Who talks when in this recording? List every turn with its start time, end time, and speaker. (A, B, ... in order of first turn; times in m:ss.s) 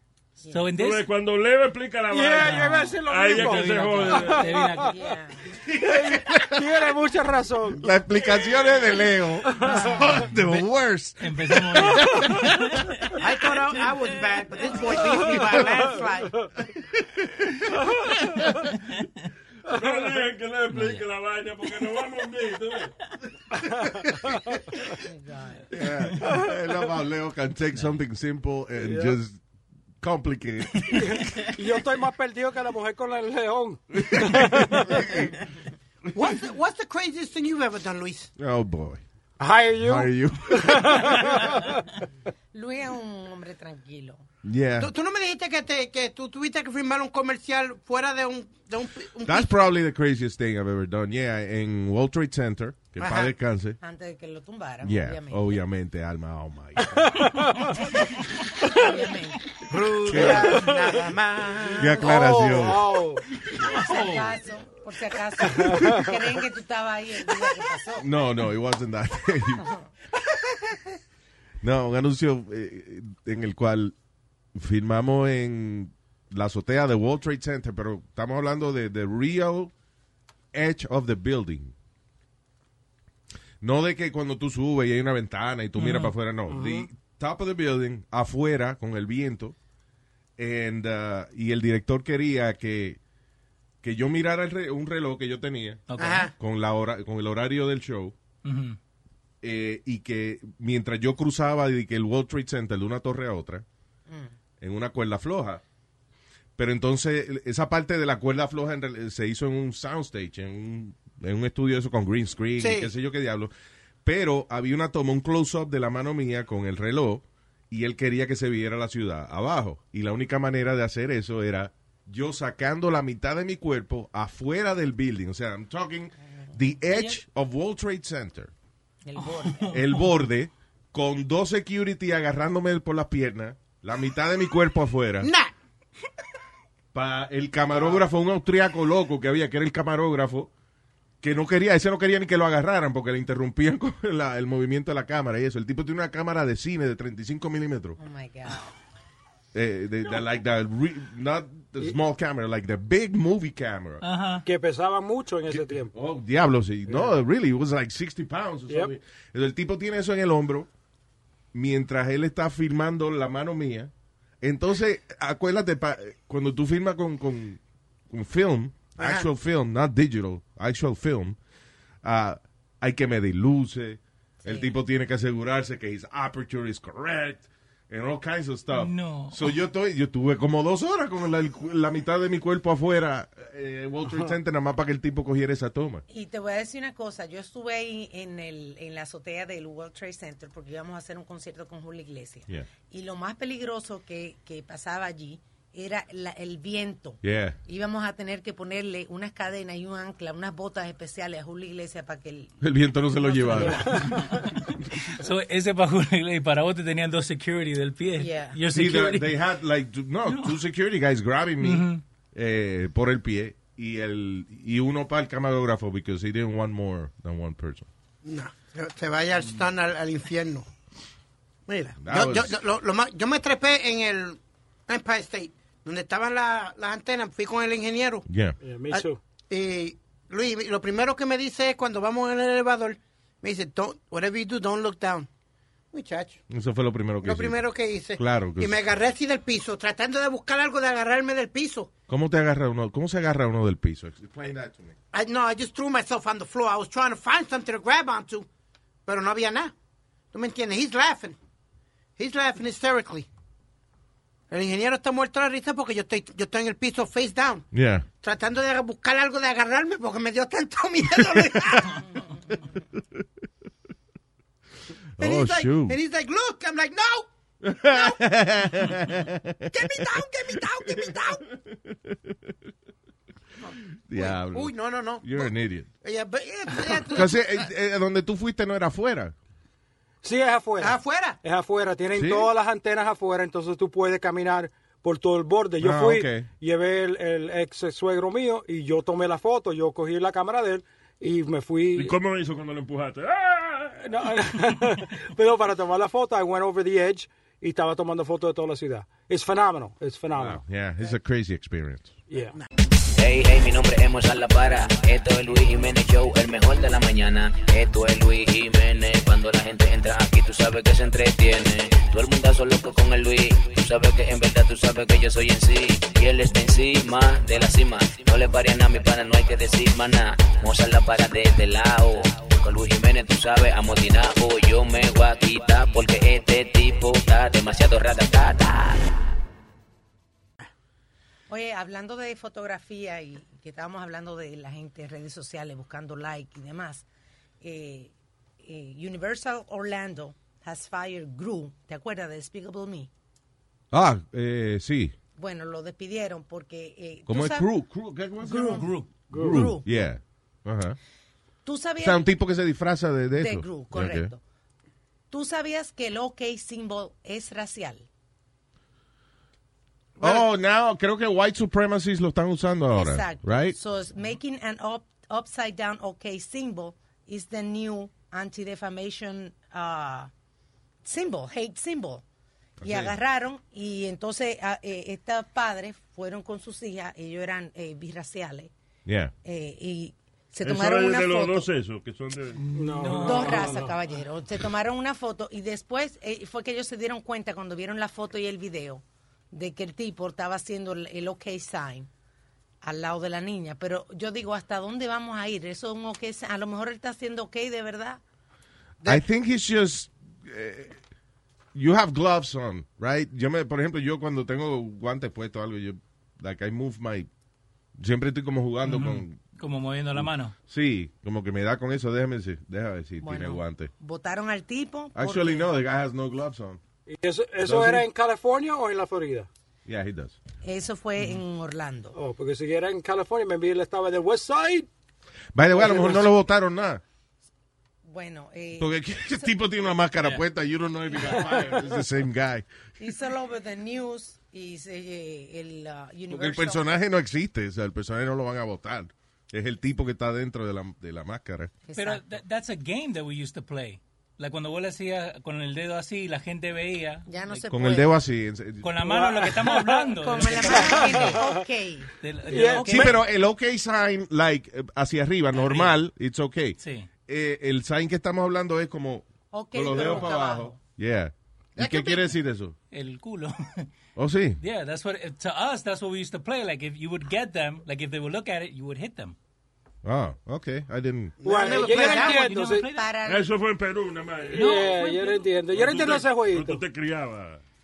0:00.4-0:00.7 A
0:00.5-0:01.1 B
0:00.7-0:04.6 C
0:02.1-0:04.9 D
0:02.4-0:05.0 B
0:04.7-0:05.5 A
0:05.6-0:06.8 E
0:05.8-0:07.8 D
0:07.7-0:12.7 E
0:09.5-0:10.0 D
0:11.2-0:13.2 B
0:13.2-0:16.4 F
0:16.7-0:17.5 E
0:19.7-0:22.9 C
0:19.7-0:20.2 D
0:20.7-0:21.0 B
0:25.0-0:25.7 A
0:25.7-0:29.4 E
0:28.8-0:29.2 D
0:30.0-0:31.5 E
0:30.9-0:35.2 D
0:34.0-0:35.3 E
0:36.1-0:36.4 E
0:36.2-0:38.3 F
0:38.4-0:39.0 E
0:39.4-0:41.8 D
0:39.8-0:41.3 E
0:42.5-0:44.2 A
0:44.4-0:44.9 E
0:44.8-0:49.5 F
0:49.2-0:53.8 E
0:53.0-0:53.3 F
0:53.8-0:55.6 A
0:54.8-0:57.6 E
0:57.2-0:57.7 D
0:58.7-0:59.5 A
0:59.7-1:02.1 F
1:00.0-1:00.7 E
1:00.4-1:00.7 D
1:01.8-1:03.2 D
1:01.8-1:02.9 E
1:03.6-1:08.1 A
1:03.8-1:04.3 B
1:05.6-1:06.0 D
1:08.0-1:09.7 E
1:09.6-1:09.9 A
1:11.6-1:13.9 E
1:14.6-1:19.7 E
1:20.5-1:21.7 E
1:23.6-1:29.6 E
1:25.8-1:26.2 B
1:26.5-1:26.9 D
1:30.4-1:33.0 E
1:33.8-1:35.8 E
1:35.9-1:36.3 B
1:36.0-1:36.3 F
1:36.4-1:38.2 E
1:38.4-1:38.8 B
1:39.4-1:43.6 E
1:44.6-1:45.6 E
1:46.6-1:53.5 E
1:52.6-1:52.9 F
1:54.0-2:08.5 E
2:09.0-2:09.8 A
2:09.4-2:09.9 B
2:09.7-2:15.3 E
2:15.2-2:15.5 F
2:16.9-2:20.5 E
2:21.2-2:28.0 E
2:28.0-2:28.7 A
2:29.5-2:34.0 E
2:34.0-2:34.5 B
2:34.4-2:35.9 D
2:35.5-2:40.7 E
2:36.9-2:37.2 D
2:38.7-2:38.9 D
2:41.5-2:43.9 E
2:44.4-2:47.6 E
2:48.1-2:51.4 E
2:49.0-2:49.3 F
2:52.0-3:06.0 E
2:54.4-2:54.8 A
2:58.7-2:59.6 B
3:06.1-3:22.6 A
3:17.2-3:17.6 E
3:22.6-3:24.2 E
3:23.2-3:24.2 A
3:23.6-3:24.2 D
3:24.2-3:24.6 B
3:25.1-3:29.4 B
3:28.2-3:28.6 A
3:28.7-3:37.9 E
3:30.3-3:30.6 B
3:31.6-3:32.0 B
3:38.2-3:40.7 F
3:41.7-3:48.3 F
3:42.0-3:42.6 E
3:48.3-3:48.6 E
3:48.6-3:49.2 D
3:48.9-3:55.3 F
3:55.9-3:56.4 F
3:56.5-3:57.6 E
3:57.2-4:01.9 F
3:58.2-3:58.8 E
4:02.1-4:05.0 E
4:05.1-4:08.5 F
4:09.1-4:09.7 F
4:10.3-4:11.4 F
4:12.2-4:13.3 F
4:14.5-4:17.7 F
4:17.7-4:18.1 E
4:18.2-4:22.1 F
4:25.2-4:26.0 E
4:25.2-4:27.3 F
4:27.6-4:32.4 E
4:27.8-4:28.2 F
4:29.7-4:31.4 F
4:33.6-4:37.4 F
4:34.0-4:35.9 E
4:37.0-4:39.4 E
4:40.2-4:52.2 D
4:40.8-4:41.4 F
4:42.1-4:42.5 E
4:45.8-4:46.5 E
4:52.0-4:54.2 C
4:54.0-5:00.6 D
5:00.4-5:02.1 E
5:02.3-5:02.6 D
5:03.2-5:29.2 G
5:31.5-5:37.1 A
5:37.6-5:43.1 A
5:43.9-5:45.1 E
5:45.4-5:47.7 A
5:47.3-5:51.0 E
5:48.4-5:49.8 A
5:48.6-5:49.1 B
5:49.3-5:49.7 D
5:51.6-5:52.3 A
5:52.0-5:54.3 E
5:53.4-5:54.4 A
5:55.3-5:58.1 A
6:00.2-6:00.4 F
6:00.2-6:03.8 E
6:02.9-6:10.3 A
6:11.0-6:12.2 A
6:12.8-6:13.2 E
6:12.8-6:18.7 A
6:19.0-6:19.3 E
6:19.4-6:21.7 A
6:20.6-6:22.6 C
6:22.6-6:23.8 B
6:22.7-6:24.0 D
6:23.2-6:32.1 A
6:32.8-6:38.2 A
6:39.1-6:41.0 E
6:41.7-6:47.3 E
6:48.0-6:49.4 E
6:48.8-6:50.6 B
6:50.2-6:53.9 E
6:53.2-6:55.7 A
6:55.2-6:56.8 E
6:57.1-6:59.5 D
6:57.6-6:58.1 E
6:59.9-7:00.4 E
7:00.6-7:02.2 A
7:02.1-7:04.9 D
7:05.5-7:07.0 E
7:05.7-7:06.3 D
7:08.0-7:09.5 A
7:08.8-7:12.7 E
7:13.0-7:17.0 A
7:16.3-7:21.7 E
7:21.9-7:22.2 A
7:22.0-7:27.6 B
7:27.3-7:28.1 A
7:27.7-7:29.0 E
7:28.8-7:31.4 B
7:29.0-7:31.6 D
7:30.2-7:32.1 A
7:32.2-7:33.2 B
7:32.5-7:33.1 D
7:32.8-7:42.8 E
7:35.5-7:36.0 B
7:36.8-7:37.1 B
7:39.5-7:40.8 A
7:41.8-7:42.3 F
7:42.9-7:43.9 B
7:44.2-7:44.6 E
7:44.6-7:49.4 B
7:50.0-7:51.4 E
7:51.4-7:52.5 F
7:51.4-7:52.9 D
7:51.8-7:53.1 B
7:51.9-7:53.5 A
7:53.2-7:54.9 C
7:54.5-7:56.8 D
7:54.5-7:55.5 B
7:55.7-7:57.6 C